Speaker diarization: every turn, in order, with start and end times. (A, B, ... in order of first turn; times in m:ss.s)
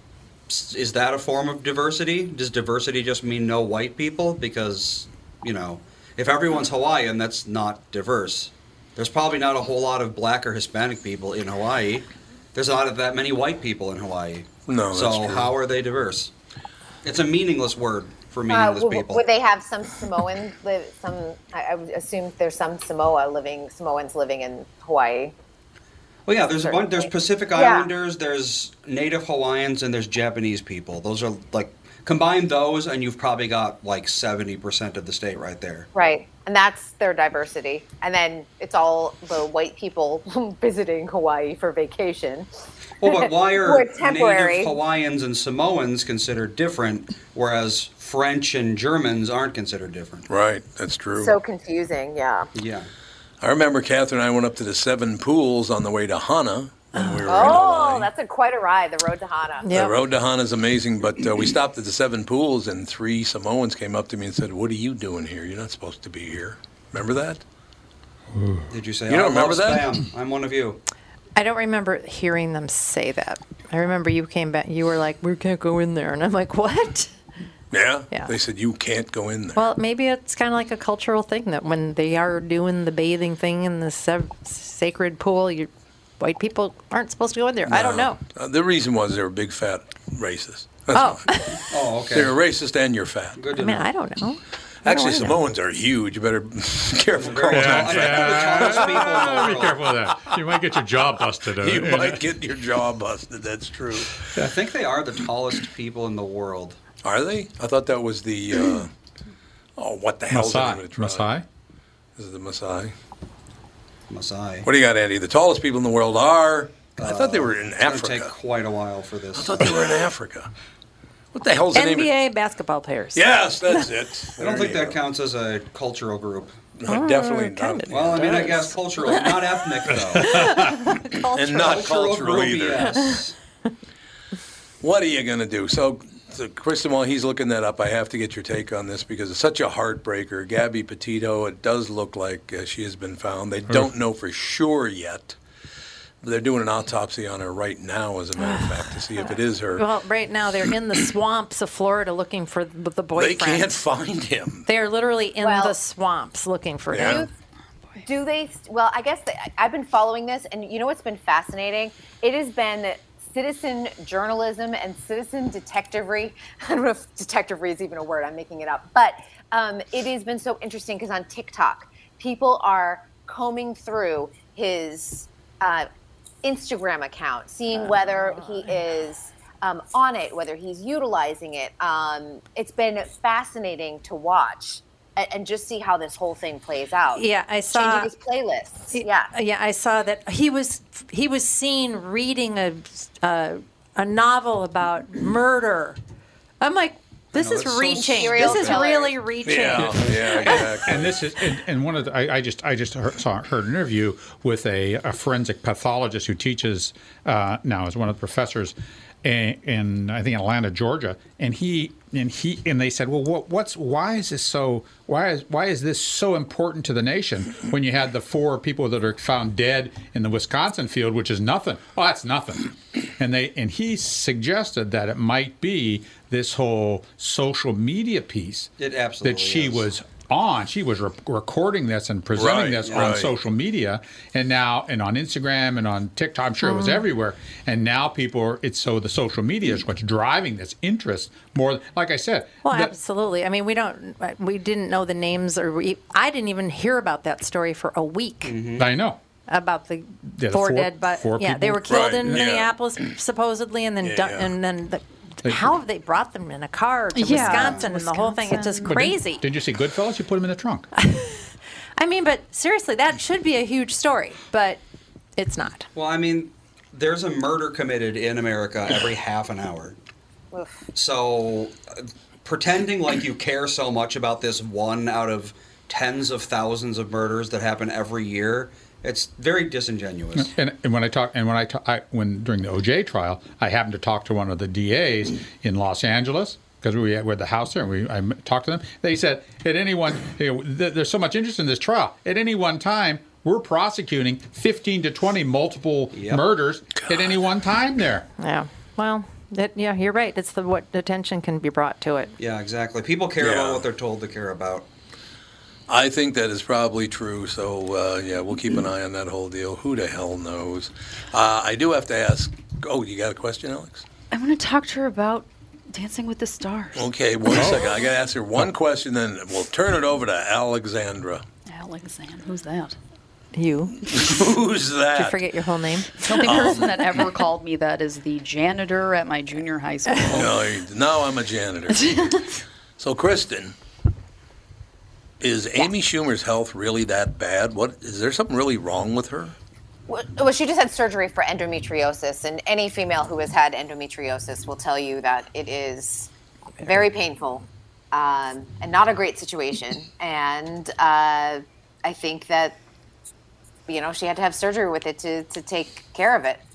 0:00.5-0:16.3 A
0:14.7-0:15.5 B
0:17.0-0:19.2 A
0:18.5-0:25.3 C
0:26.3-0:35.9 A
0:26.6-0:27.9 C
0:35.9-0:42.5 C
0:43.0-0:50.3 A
0:43.0-0:44.8 C
0:50.3-0:51.4 B
0:51.1-0:52.5 C
0:52.5-0:52.9 A
0:53.4-0:58.1 B
0:57.0-0:57.5 D
0:57.2-0:59.7 C
0:59.6-1:00.0 D
0:59.7-1:07.4 B
1:08.3-1:08.7 E
1:08.7-1:10.8 A
1:09.1-1:10.0 B
1:11.4-1:17.1 D
1:17.7-1:19.6 B
1:19.5-1:28.2 D
1:27.6-1:31.2 B
1:30.9-1:31.6 D
1:31.7-1:32.4 A
1:32.1-1:33.4 B
1:33.4-1:33.9 A
1:33.6-1:35.4 D
1:34.8-1:39.3 B
1:37.1-1:39.9 A
1:37.5-1:42.2 E
1:41.6-1:44.3 B
1:44.4-1:46.8 A
1:47.0-1:48.9 B
1:49.8-1:51.3 B
1:50.3-1:51.4 E
1:52.2-1:52.9 B
1:54.1-1:54.7 A
1:54.6-1:58.3 B
1:56.9-2:00.0 A
1:59.3-2:00.5 B
2:01.3-2:02.1 B
2:01.7-2:03.9 D
2:03.1-2:05.0 B
2:04.4-2:06.6 A
2:06.8-2:08.5 B
2:06.9-2:09.1 D
2:07.9-2:10.4 A
2:10.2-2:11.8 D
2:10.4-2:10.7 E
2:11.1-2:13.1 B
2:11.5-2:13.3 A
2:14.8-2:25.4 B
2:26.2-2:29.8 B
2:28.4-2:33.8 D
2:33.2-2:34.7 B
2:34.7-2:37.3 D
2:35.4-2:35.8 C
2:36.9-2:37.2 B
2:37.0-2:37.3 C
2:38.0-2:55.9 C
2:56.4-3:09.3 C
2:57.7-2:58.8 D
3:07.1-3:08.1 D
3:08.9-3:16.0 D
3:16.6-3:20.7 D
3:17.3-3:18.8 A
3:18.0-3:19.2 C
3:19.4-3:21.2 B
3:20.8-4:02.9 E
3:48.8-3:49.9 A
3:52.4-3:53.3 B
3:52.8-3:53.2 A
3:56.6-3:57.0 D
4:02.6-4:08.6 D
4:08.4-4:08.9 A
4:08.8-4:09.2 E
4:09.5-4:19.4 D
4:10.3-4:12.4 E
4:11.9-4:12.7 B
4:14.0-4:14.5 B
4:15.4-4:15.7 E
4:17.1-4:19.0 F
4:17.3-4:17.9 A
4:18.9-4:20.9 E
4:21.0-4:24.8 D
4:25.4-4:25.9 D
4:25.9-4:30.0 A
4:30.5-4:30.8 C
4:30.9-4:40.5 A
4:40.3-4:58.3 E
4:56.1-4:56.4 A
4:57.0-4:57.4 B
4:58.4-5:02.3 D
5:02.4-5:04.9 A
5:03.4-5:03.8 B
5:05.9-5:14.0 B
5:14.3-5:17.1 F
5:16.9-5:21.4 B
5:17.5-5:17.8 E
5:21.7-5:23.0 F
5:23.5-5:24.2 D
5:24.0-5:25.4 B
5:25.1-5:26.3 D
5:26.2-5:30.5 F
5:26.3-5:27.2 B
5:30.3-5:32.2 B
5:31.9-5:32.6 F
5:33.0-5:33.7 B
5:35.4-5:39.5 B
5:40.1-5:46.3 C
5:46.8-5:52.8 C
5:53.9-5:56.6 C